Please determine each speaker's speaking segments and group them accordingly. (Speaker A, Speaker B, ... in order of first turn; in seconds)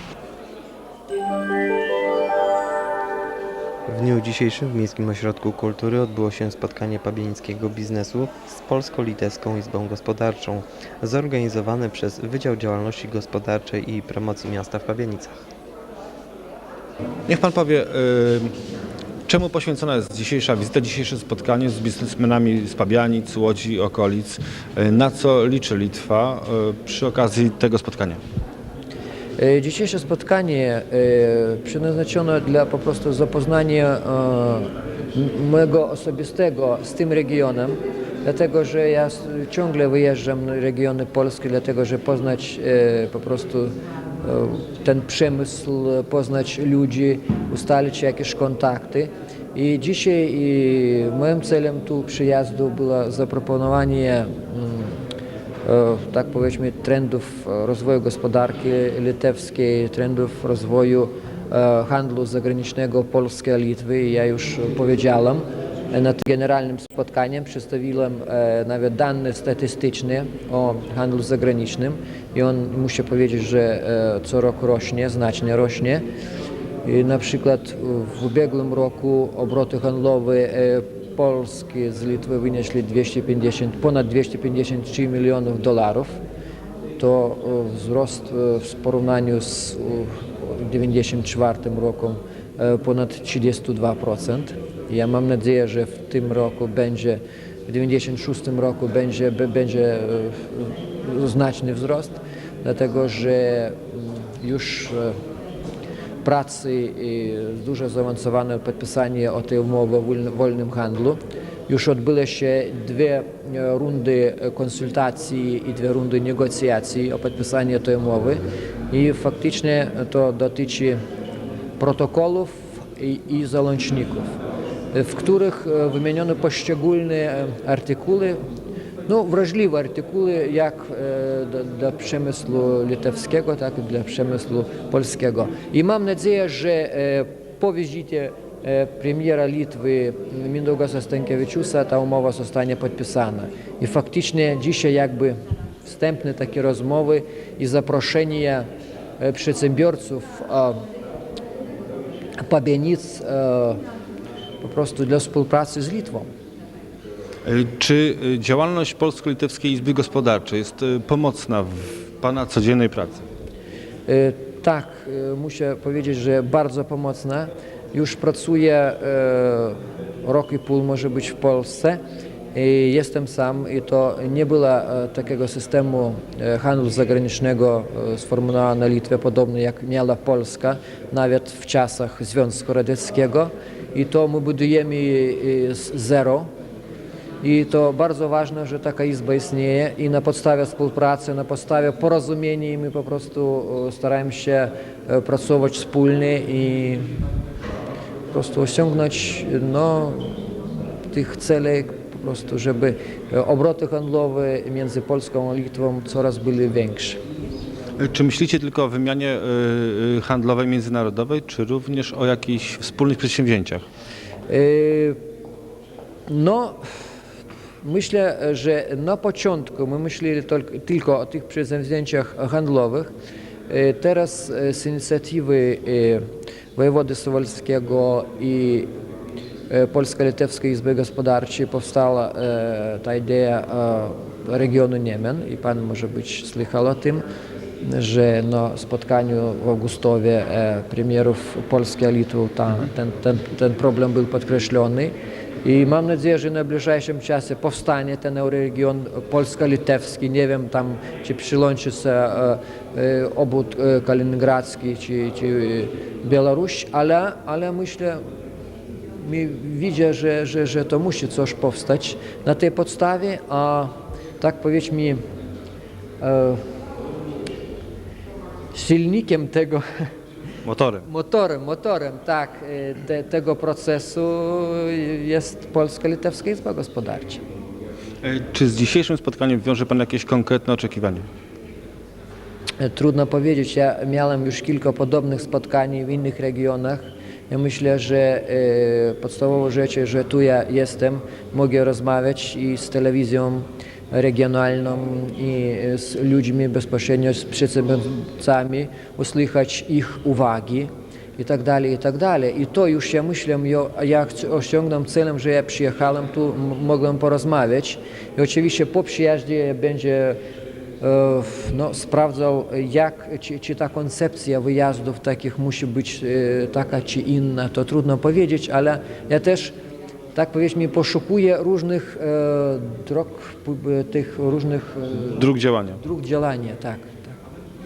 Speaker A: 3.9-15.4
Speaker B: 17.3-18.5, 19.3-28.2, 157.4-163.2, 208.0-213.8, 270.6-271.0, 278.2-281.2, 325.3-326.0
Speaker C: 29.4-55.0, 55.6-76.0, 76.8-86.2, 87.0-105.2, 106.2-121.0, 121.8-124.3, 124.9-128.4, 129.1-148.7, 149.2-150.8, 152.4-153.8, 154.6-156.3, 164.1-172.0, 172.5-186.5, 187.4-197.1, 198.3-200.5, 201.1-207.2, 214.5-215.2, 216.3-216.8, 217.8-223.1, 223.7-228.9, 229.7-237.2, 237.8-258.2, 259.1-265.2, 266.2-266.6, 268.7-269.8, 271.0-277.4, 282.8-310.4, 311.0-319.7, 320.3-327.4